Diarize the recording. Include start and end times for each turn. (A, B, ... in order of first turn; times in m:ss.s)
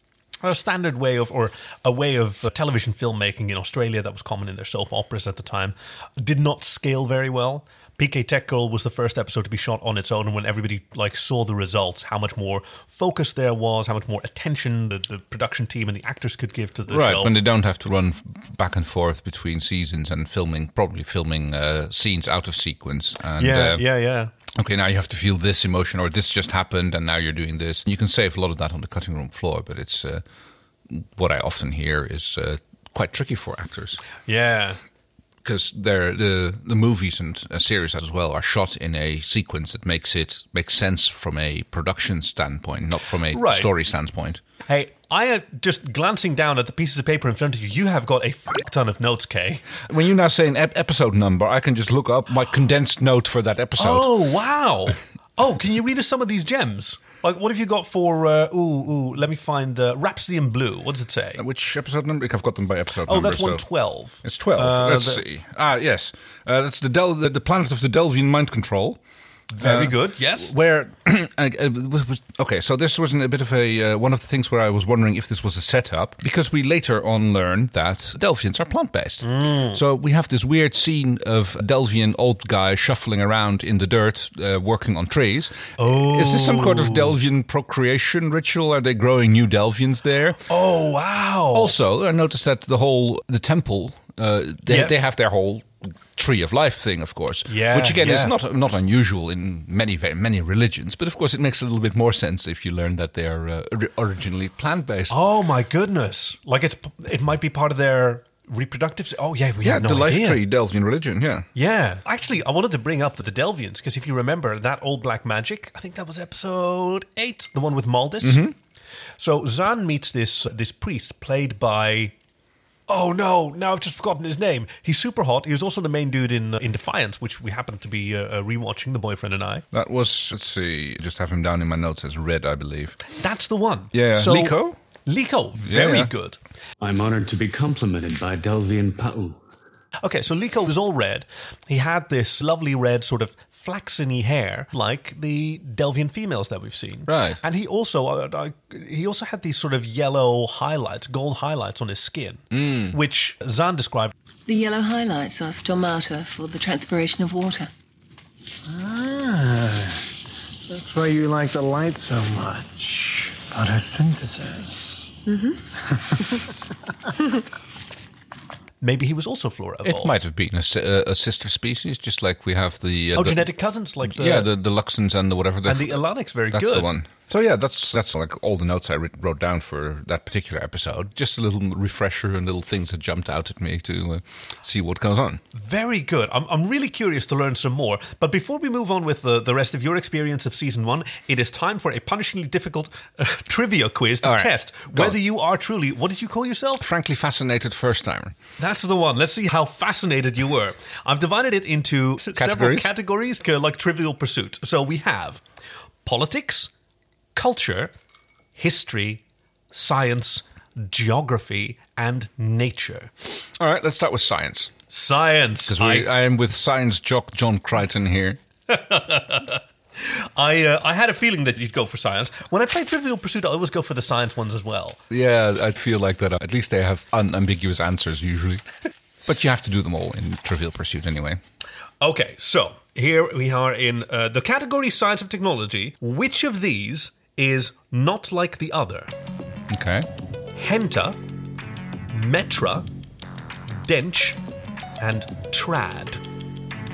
0:00.4-0:17.3 A
0:16.9-0:23.8 B
0:23.4-0:24.3 A
0:24.5-0:30.2 B
0:30.9-0:34.0 B
0:34.2-0:34.8 A
0:35.4-0:44.4 B
0:43.3-0:43.7 A
0:44.7-0:49.7 A
0:49.9-0:54.1 B
0:53.8-1:01.4 A
1:01.3-1:03.6 B
1:03.0-1:05.2 A
1:04.2-1:09.0 B
1:09.5-1:10.5 A
1:09.6-1:30.4 B
1:19.2-1:19.8 A
1:25.8-1:27.1 A
1:30.5-1:31.7 A
1:31.5-1:45.2 B
1:34.7-1:35.0 A
1:37.5-1:38.3 A
1:45.1-1:50.4 A
1:49.6-1:51.5 B
1:51.5-1:58.5 A
1:58.2-1:58.5 B
1:59.2-2:02.1 A
2:02.9-2:09.6 A
2:09.7-2:13.0 B
2:13.2-2:16.4 A
2:13.9-2:14.8 B
2:15.6-2:16.1 B
2:16.8-2:19.4 C
2:20.0-2:34.1 A
2:27.1-2:27.4 B
2:32.5-2:33.0 B
2:34.5-2:37.7 D
2:38.6-2:40.0 E
2:40.7-2:45.1 E
2:45.9-2:46.5 E
2:48.8-2:50.2 A
2:49.8-2:53.5 B
2:53.1-2:54.5 A
2:54.0-3:05.4 B
2:55.6-2:56.9 A
3:05.5-3:16.8 A
3:14.2-3:15.2 B
3:16.8-3:18.4 B
3:18.6-3:25.4 A
3:22.3-3:22.9 B
3:26.0-3:26.7 A
3:27.3-3:27.9 A
3:28.6-3:33.1 A
3:33.6-3:34.7 B
3:34.9-3:36.1 A
3:35.7-3:38.4 B
3:38.7-3:45.0 A
3:45.1-3:48.6 B
3:49.2-3:51.4 B
3:52.0-3:59.1 A
3:59.7-4:00.1 B
4:00.6-4:01.2 A
4:02.1-4:02.9 A
4:03.7-4:04.4 A
4:05.0-4:06.2 A